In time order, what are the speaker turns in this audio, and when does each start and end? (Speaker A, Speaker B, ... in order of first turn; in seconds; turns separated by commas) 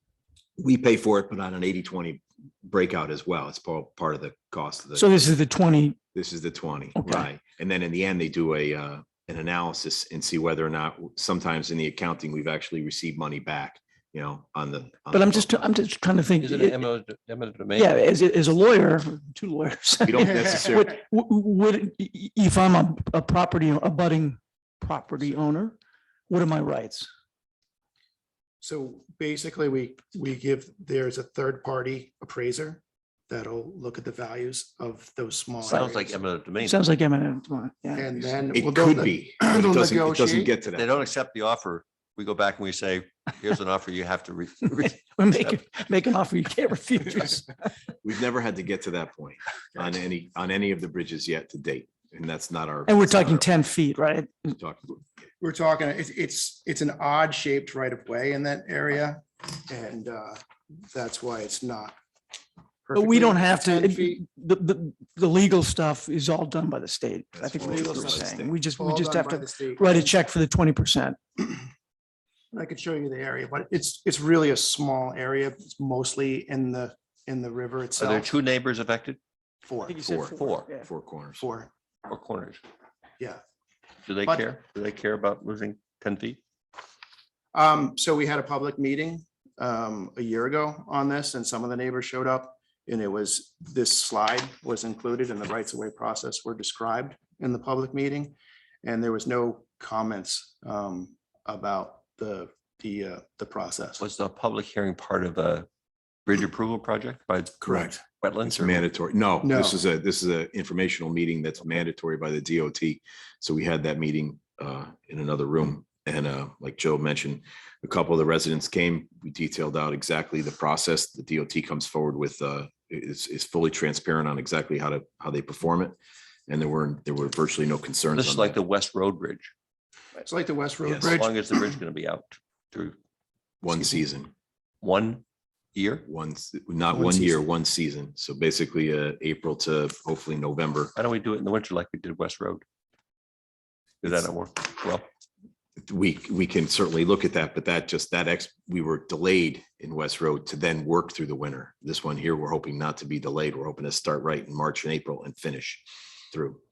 Speaker A: 0.6-5.2, Speaker B: 5.0-6.0, Speaker A: 6.1-15.7, Speaker B: 7.0-7.3, Speaker B: 15.1-16.9, Speaker C: 16.4-18.0, Speaker B: 17.8-25.8, Speaker A: 20.1-20.9, Speaker B: 26.3-27.1, Speaker D: 28.6-36.2, Speaker C: 35.6-36.9, Speaker B: 35.7-36.0, Speaker B: 36.6-38.1, Speaker D: 38.0-40.5, Speaker A: 38.5-40.9, Speaker C: 40.7-45.6, Speaker B: 44.8-47.7, Speaker A: 48.0-53.5, Speaker B: 52.9-54.6, Speaker A: 54.6-55.0, Speaker D: 55.4-62.0, Speaker D: 62.9-64.2, Speaker B: 62.9-71.2, Speaker A: 67.3-68.6, Speaker D: 67.5-70.2, Speaker D: 72.5-78.3, Speaker C: 78.0-79.2, Speaker D: 79.6-80.0, Speaker B: 79.9-80.9, Speaker A: 80.0-81.5, Speaker C: 80.0-80.7, Speaker D: 81.4-81.7, Speaker C: 82.1-82.6, Speaker C: 84.1-86.4, Speaker D: 87.5-104.0, Speaker C: 104.0-105.7, Speaker C: 106.3-108.9, Speaker A: 107.6-126.0, Speaker D: 109.4-109.8, Speaker A: 126.5-128.6, Speaker C: 128.1-129.5, Speaker D: 130.2-131.5, Speaker A: 130.9-131.1, Speaker C: 131.0-133.0, Speaker A: 133.6-134.3, Speaker C: 134.8-135.2, Speaker C: 135.8-136.1, Speaker A: 136.1-140.9, Speaker D: 136.9-137.4, Speaker C: 141.0-142.6, Speaker C: 144.0-145.1, Speaker A: 145.8-156.6